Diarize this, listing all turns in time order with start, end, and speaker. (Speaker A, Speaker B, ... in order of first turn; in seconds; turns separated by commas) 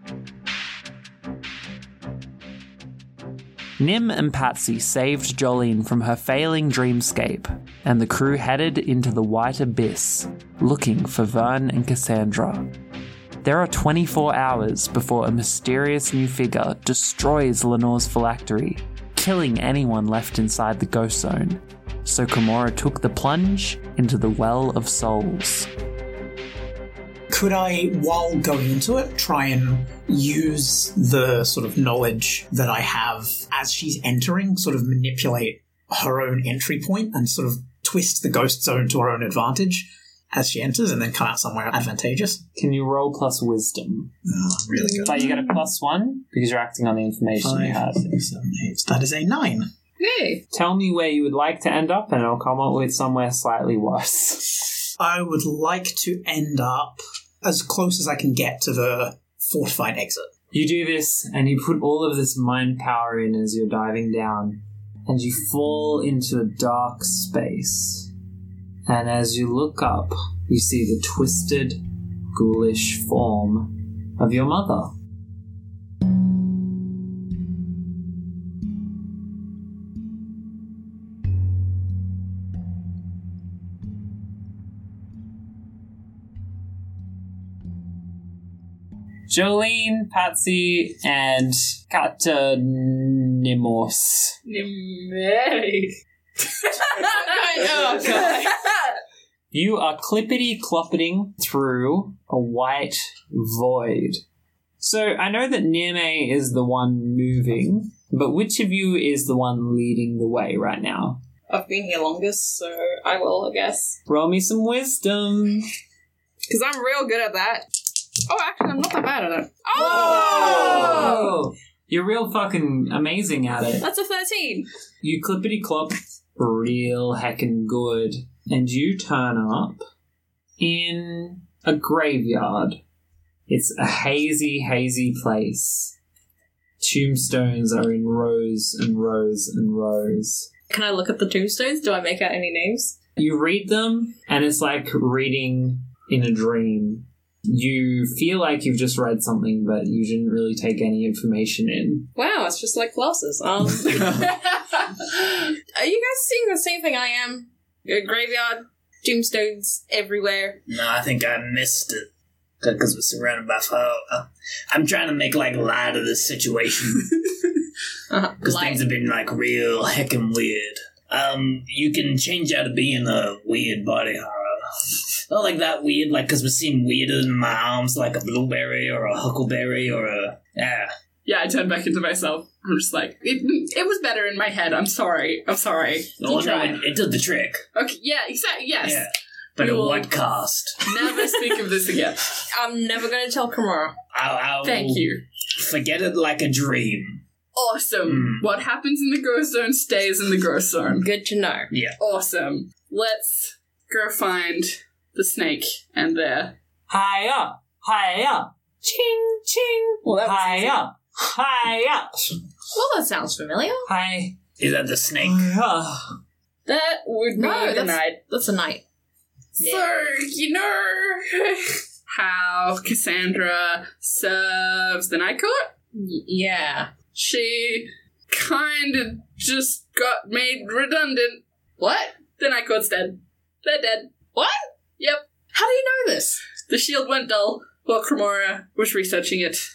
Speaker A: 3.8-12.7, Speaker A: 13.4-25.7, Speaker B: 27.3-42.4, Speaker A: 42.5-44.1, Speaker B: 44.2-45.3, Speaker C: 44.9-45.2, Speaker A: 45.0-48.2, Speaker B: 47.4-49.7, Speaker C: 50.0-50.4, Speaker A: 50.5-54.8, Speaker B: 55.0-60.3, Speaker A: 60.5-68.1, Speaker A: 68.9-71.8, Speaker A: 72.3-74.9, Speaker A: 89.3-94.4, Speaker D: 94.5-95.9, Speaker D: 96.5-98.6, Speaker C: 96.8-98.9, Speaker A: 99.5-104.2, Speaker A: 104.8-111.2, Speaker C: 111.5-114.0, Speaker A: 114.1-115.7, Speaker C: 116.5-117.7, Speaker C: 118.3-121.4, Speaker A: 119.8-123.9, Speaker D: 119.8-121.3, Speaker C: 123.8-124.7, Speaker A: 125.0-129.8, Speaker A: 130.6-132.8, Speaker A: 133.5-136.0, Speaker A: 136.8-140.5, Speaker C: 140.7-142.9, Speaker A: 143.2-152.1, Speaker C: 152.2-160.6, Speaker E: 160.7-162.1, Speaker E: 162.6-167.3, Speaker C: 168.1-168.9, Speaker E: 168.4-174.6, Speaker E: 175.3-180.9, Speaker D: 181.3-186.8, Speaker E: 186.2-187.6, Speaker D: 187.8-189.1, Speaker E: 188.8-191.4, Speaker D: 189.6-190.1, Speaker D: 190.8-192.3, Speaker C: 192.4-194.0, Speaker E: 194.1-197.2, Speaker D: 194.6-195.2, Speaker D: 197.5-201.1, Speaker E: 198.1-198.5, Speaker C: 201.0-201.7, Speaker E: 201.7-202.0, Speaker D: 202.0-206.6, Speaker A: 206.9-212.2, Speaker D: 210.0-210.8, Speaker C: 212.7-213.9, Speaker A: 213.9-214.4, Speaker E: 214.6-215.5, Speaker A: 215.2-216.2, Speaker D: 216.7-218.2, Speaker C: 217.4-218.8, Speaker C: 219.6-219.9, Speaker D: 219.6-225.7, Speaker C: 225.9-226.9, Speaker D: 227.1-234.1, Speaker D: 235.0-235.2, Speaker C: 235.5-236.4, Speaker D: 236.6-239.6